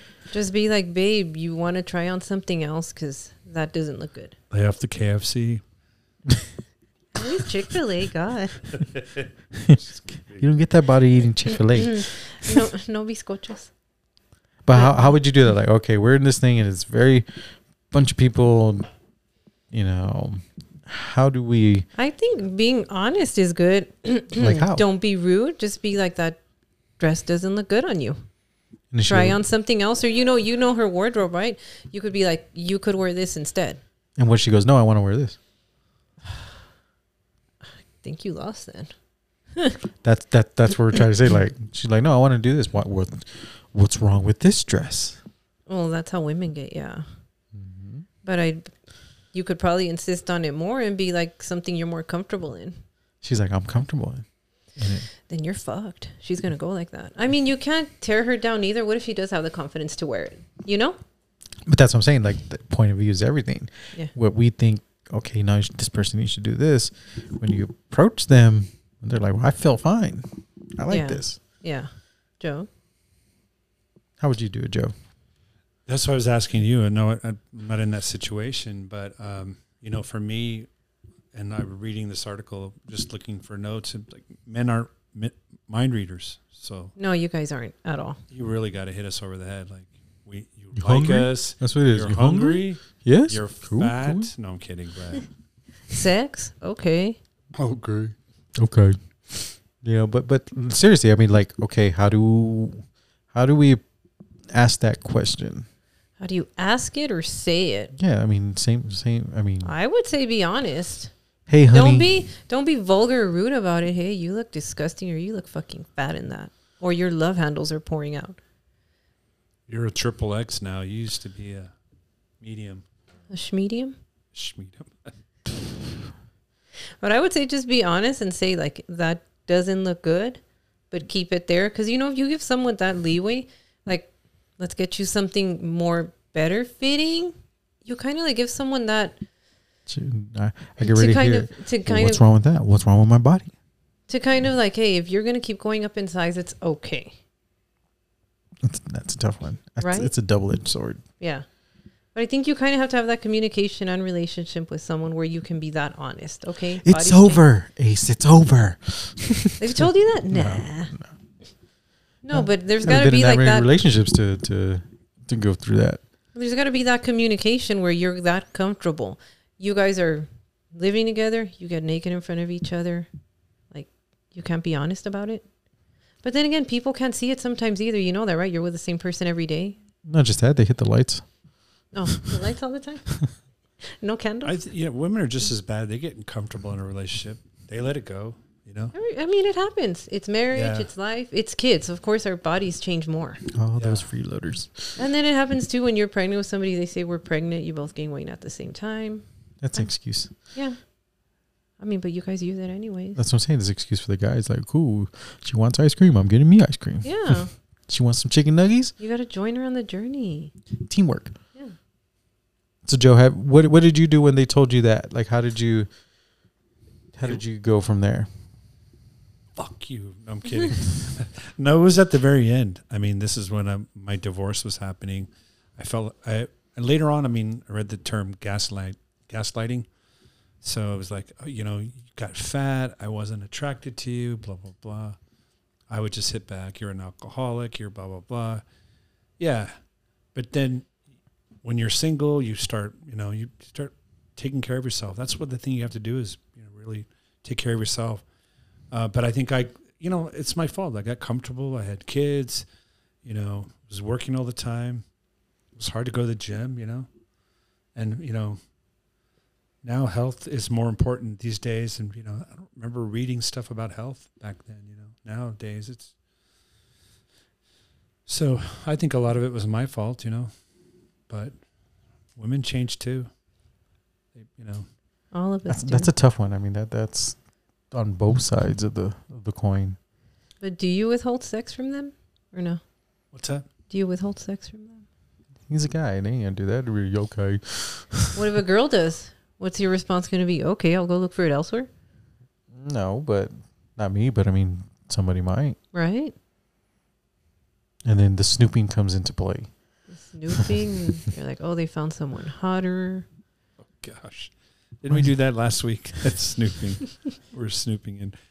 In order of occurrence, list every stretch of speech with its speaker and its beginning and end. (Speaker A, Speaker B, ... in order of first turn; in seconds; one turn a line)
Speaker A: 0.3-4.3
Speaker B: 4.5-5.6
Speaker A: 7.1-8.8
Speaker B: 8.8-10.5
Speaker C: 9.6-9.8
Speaker C: 10.3-12.6
Speaker A: 11.7-13.7
Speaker C: 14.6-18.9
Speaker A: 14.7-15.2
Speaker C: 19.7-21.9
Speaker A: 21.9-26.4
Speaker C: 24.4-24.8
Speaker A: 27.0-28.2
Speaker C: 28.9-29.4
Speaker A: 29.1-33.8
Speaker C: 34.2-35.4
Speaker A: 38.0-38.9
Speaker C: 40.0-45.2
Speaker A: 45.7-47.0
Speaker C: 47.5-48.0
Speaker A: 48.2-48.7
Speaker A: 49.3-52.8
Speaker C: 53.2-54.2
Speaker C: 54.8-55.1
Speaker A: 55.3-61.0
Speaker C: 61.6-71.4
Speaker A: 70.9-72.7
Speaker C: 74.2-74.9
Speaker B: 75.9-80.7
Speaker B: 81.3-86.9
Speaker A: 87.0-88.2
Speaker B: 88.3-95.3
Speaker C: 90.8-94.3
Speaker A: 95.9-97.2
Speaker B: 97.6-98.1
Speaker C: 98.6-103.8
Speaker C: 104.5-105.7
Speaker A: 106.2-107.9
Speaker C: 107.9-109.7
Speaker A: 109.6-111.1
Speaker C: 111.5-112.1
Speaker A: 111.7-118.4
Speaker B: 119.7-121.7
Speaker B: 122.4-122.8
Speaker A: 123.3-124.0
Speaker B: 124.3-125.1
Speaker A: 127.0-137.3
Speaker A: 137.8-139.2
Speaker C: 139.9-143.5
Speaker A: 140.8-142.2
Speaker A: 144.1-147.1
Speaker C: 148.6-151.0
Speaker A: 149.8-150.1
Speaker A: 151.2-151.4
Speaker A: 152.1-157.4
Speaker C: 156.8-161.1
Speaker A: 159.6-160.9
Speaker A: 162.2-163.7
Speaker C: 162.3-166.0
Speaker A: 166.3-173.1
Speaker A: 173.7-175.4
Speaker A: 176.2-179.8
Speaker C: 180.0-181.2
Speaker A: 181.9-183.1
Speaker A: 183.8-184.5
Speaker B: 184.4-188.9
Speaker A: 188.9-193.4
Speaker B: 190.5-190.9
Speaker C: 193.5-195.0
Speaker B: 193.8-194.1
Speaker A: 195.0-199.2
Speaker C: 199.6-200.3
Speaker A: 201.8-203.2
Speaker C: 203.2-208.9
Speaker A: 207.0-207.5
Speaker A: 209.0-210.5
Speaker C: 210.8-211.3
Speaker C: 212.8-215.9
Speaker C: 217.1-218.3
Speaker B: 219.6-229.8
Speaker B: 230.6-235.2
Speaker B: 235.9-238.6
Speaker B: 239.4-239.7
Speaker B: 240.3-240.9
Speaker B: 241.6-248.2
Speaker B: 248.9-252.6
Speaker B: 253.2-255.0
Speaker B: 255.8-257.1
Speaker B: 257.9-258.6
Speaker B: 259.8-266.1
Speaker B: 268.3-270.5
Speaker B: 271.3-271.5
Speaker B: 272.4-273.3
Speaker B: 274.3-274.9
Speaker A: 275.3-276.1
Speaker C: 275.7-277.4
Speaker C: 277.9-280.0
Speaker A: 280.6-282.8
Speaker B: 283.3-283.6
Speaker A: 283.9-285.0
Speaker C: 285.7-288.4
Speaker A: 288.3-291.9
Speaker C: 292.7-295.8
Speaker A: 295.9-296.3
Speaker C: 298.0-299.7
Speaker A: 300.1-303.2
Speaker B: 304.0-308.3